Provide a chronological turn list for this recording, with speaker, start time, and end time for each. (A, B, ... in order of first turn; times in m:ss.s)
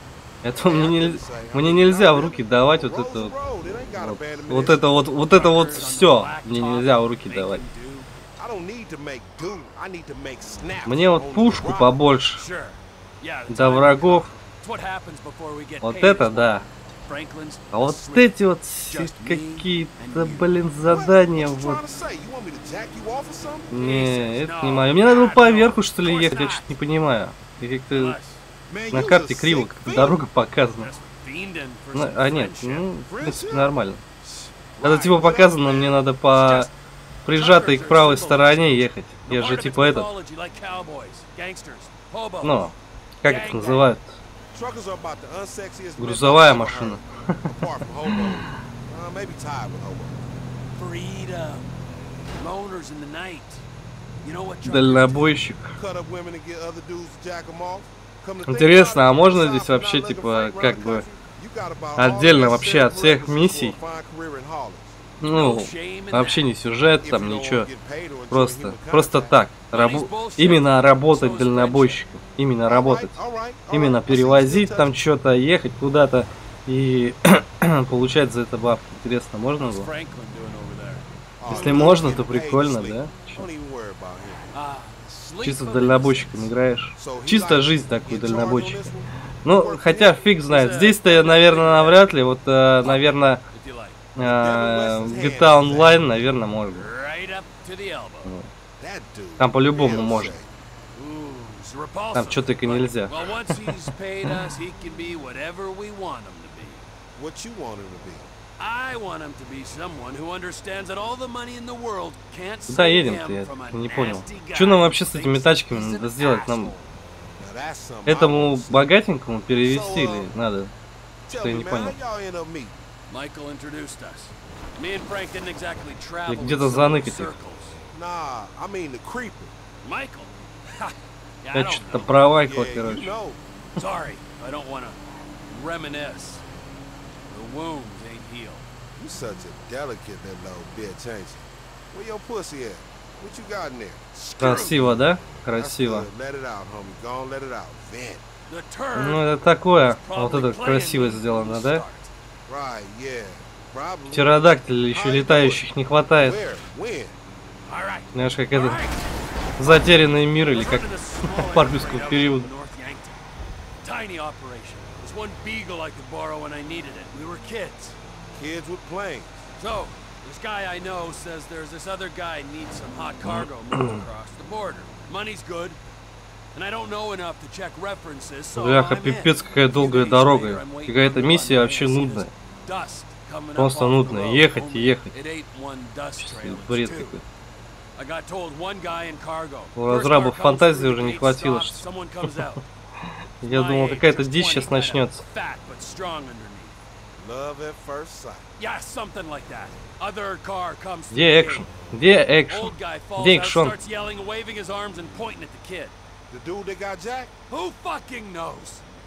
0:00.4-0:03.4 A
0:00.6-0:05.1 B
0:03.9-0:07.6 A
0:05.3-0:08.1 C
0:08.4-0:12.0 B
0:10.8-0:12.4 A
0:12.4-0:20.4 C
0:13.5-0:14.3 A
0:15.8-0:16.7 A
0:17.7-0:21.8 A
0:20.9-0:23.7 B
0:23.7-0:28.2 A
0:23.7-0:26.8 C
0:27.9-0:28.4 C
0:28.7-0:30.2 B
0:28.9-0:30.9 A
0:30.8-0:32.9 C
0:31.9-0:34.0 A
0:33.1-0:33.7 B
0:34.8-0:36.0 B
0:34.8-0:36.7 A
0:36.4-0:36.7 C
0:37.2-0:40.1 A
0:37.3-0:43.9 C
0:42.4-0:44.2 A
0:44.5-0:50.4 B
0:46.0-0:47.6 A
0:48.1-0:48.4 A
0:50.8-0:51.7 C
0:52.4-0:53.6 C
0:54.2-0:55.4 C
0:54.6-0:55.8 A
0:55.8-1:05.0 B
0:58.5-1:01.1 A
1:02.0-1:03.8 A
1:05.2-1:07.7 A
1:05.3-1:06.4 C
1:07.0-1:09.4 B
1:08.3-1:13.2 A
1:09.7-1:12.0 C
1:12.7-1:14.9 B
1:13.7-1:19.9 A
1:19.6-1:21.0 C
1:21.4-1:24.5 B
1:21.5-1:23.5 A
1:24.5-1:26.6 C
1:25.4-1:28.9 A
1:27.0-1:30.2 B
1:29.4-1:33.4 A
1:30.4-1:32.1 C
1:32.8-1:34.0 C
1:34.2-1:36.9 A
1:34.2-1:36.1 B
1:36.8-1:38.3 C
1:38.2-1:38.5 A
1:38.8-1:40.5 B
1:39.4-1:40.4 A
1:41.0-1:46.8 C
1:42.1-1:44.4 A
1:47.2-1:48.3 B
1:48.6-1:56.9 C
1:52.7-1:56.7 A
1:57.4-1:59.0 B
1:58.1-2:00.7 A
1:59.6-2:00.3 B
2:01.3-2:02.8 B
2:01.3-2:02.0 A
2:03.1-2:07.8 C
2:06.3-2:07.4 A
2:07.9-2:09.6 B
2:09.8-2:12.1 C
2:11.5-2:13.1 A
2:12.4-2:13.4 B
2:13.8-2:15.0 C
2:15.5-2:16.4 C
2:17.3-2:18.7 C
2:19.0-2:24.1 B
2:24.2-2:25.0 C
2:24.4-2:26.1 A
2:25.5-2:28.2 B
2:28.5-2:29.2 C
2:29.0-2:31.8 A
2:29.9-2:32.1 C
2:32.5-2:34.4 B
2:34.1-2:36.4 A
2:34.9-2:35.7 B
2:36.2-2:37.2 B
2:37.7-2:43.2 C
2:38.1-2:38.8 A
2:39.6-2:42.5 A
2:43.8-2:48.0 C
2:48.3-2:49.4 B
2:49.6-2:55.8 C
2:53.2-2:54.0 A
2:56.5-3:07.2 C
2:58.6-3:02.3 A
3:03.6-3:05.1 A
3:06.2-3:07.2 A
3:08.0-3:12.6 C
3:09.8-3:12.6 A
3:13.4-3:15.2 A
3:13.4-3:16.8 C
3:17.2-3:18.5 B
3:18.6-3:21.7 C
3:21.1-3:23.8 A
3:22.5-3:26.0 C
3:26.3-3:27.3 B
3:27.5-3:28.8 C